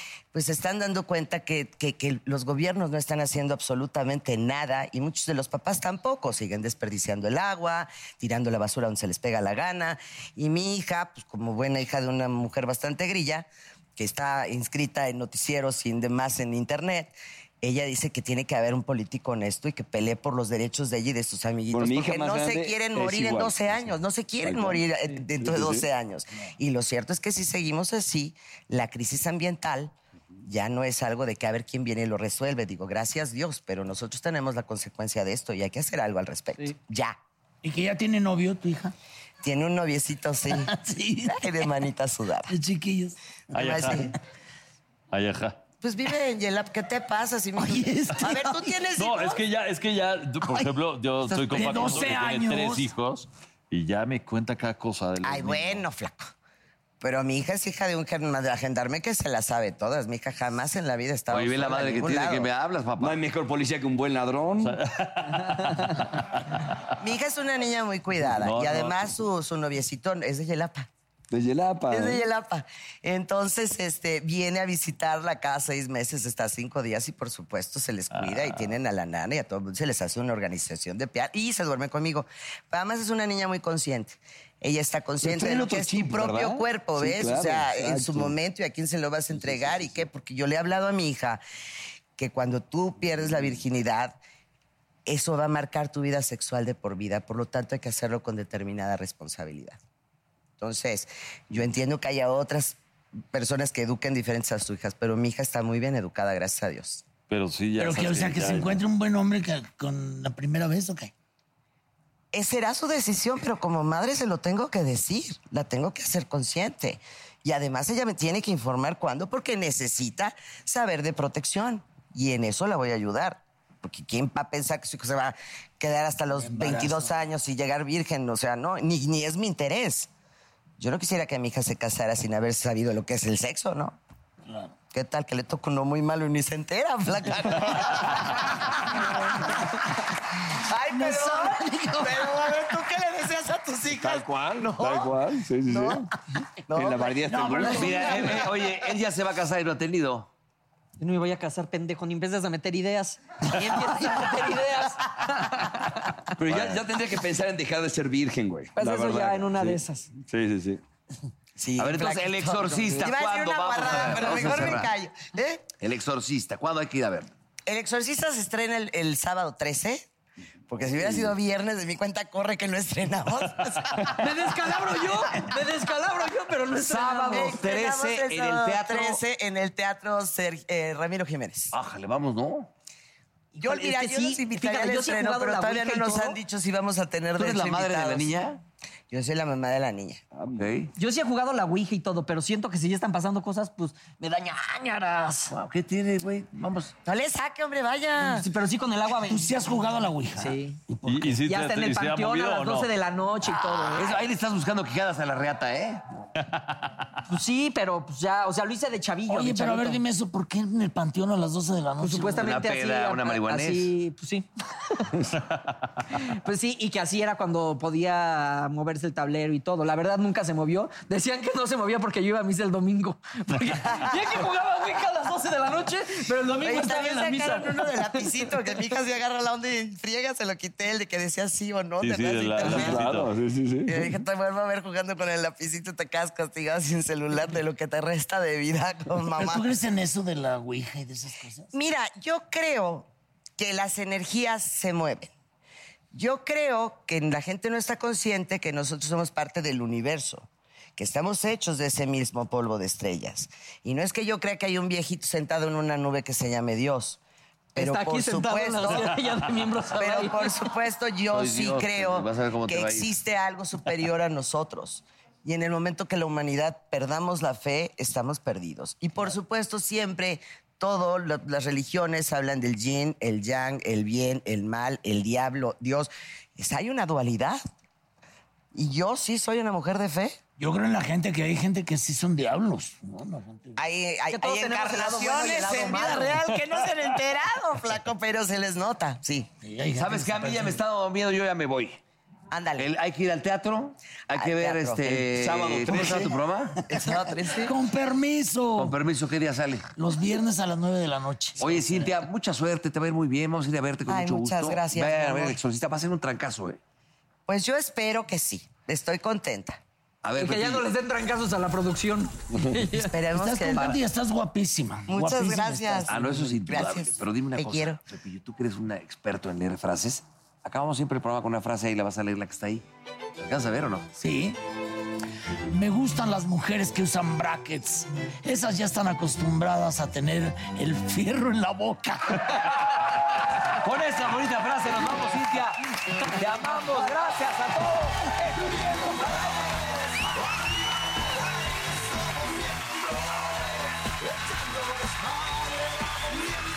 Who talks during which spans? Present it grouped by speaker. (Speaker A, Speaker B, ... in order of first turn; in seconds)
Speaker A: 0.3-29.9, 30.4-37.1, 39.4-40.7, 41.2-42.5, 43.5-44.1, 45.8-49.4, 55.2-56.3, 57.0-62.5, 67.0-70.9, 71.9-91.4, 92.2-94.2, 95.0-99.8, 100.6-102.8, 103.3-107.0, 112.3-130.1, 130.8-134.0, 134.9-138.9, 140.6-146.1, 146.7-147.7, 161.6-165.6, 167.7-170.1, 170.7-174.2, 177.3-181.7, 183.6-188.3, 189.1-190.2, 197.0-198.5, 223.8-224.4, 226.6-233.0, 233.9-239.7, 241.7-245.3, 246.1-257.2, 257.7-259.2, 259.9-277.6, 278.7-280.4, 283.8-289.5, 292.5-292.9, 294.3-295.2, 296.9-297.8, 304.1-305.6, 307.5-309.8, 313.0-314.0, 315.1-318.0
Speaker B: 21.7-25.9, 63.0-64.8, 71.3-72.2, 85.2-88.3, 89.3-90.0, 143.9-146.1, 146.7-148.3, 156.3-160.8, 164.2-164.4, 190.3-190.7, 232.6-234.1, 295.3-296.4
Speaker C: 37.6-38.9, 40.5-41.4, 42.5-44.0, 47.6-48.8, 51.5-52.9, 107.8-111.1, 126.3-127.1, 138.9-139.8, 140.9-142.2, 147.2-148.5, 199.2-201.5, 209.3-212.6, 239.3-241.7, 280.6-283.8, 289.6-290.8, 295.9-296.3, 296.9-298.9, 299.9-302.1, 313.3-316.5, 324.1-324.6, 325.7-332.6
Speaker D: 43.5-44.1, 45.1-45.6, 49.0-55.8, 64.6-66.6, 68.1-69.2, 78.1-78.7, 107.3-108.8, 201.1-202.9, 206.4-207.0, 215.6-216.0, 232.0-233.3
Speaker E: 51.5-52.1, 61.3-63.2, 147.6-150.3, 161.8-164.9, 165.8-167.3, 176.8-179.2, 181.7-182.7, 187.3-188.6, 190.6-190.9, 195.5-196.9, 203.9-206.0, 212.4-213.9, 261.3-263.1, 289.9-292.0, 292.8-296.8, 298.8-299.9, 301.6-306.8, 310.2-310.8, 316.1-322.8, 323.4-324.1, 333.8-337.7
Speaker F: 65.4-66.0, 151.0-156.2, 158.8-160.1, 174.1-177.6, 183.5-186.4, 190.9-195.5, 198.2-199.5, 200.4-200.8, 201.4-204.2, 207.3-210.0, 212.0-215.1, 216.1-228.8, 257.8-260.7, 284.3-286.5, 310.4-313.1, 336.3-339.5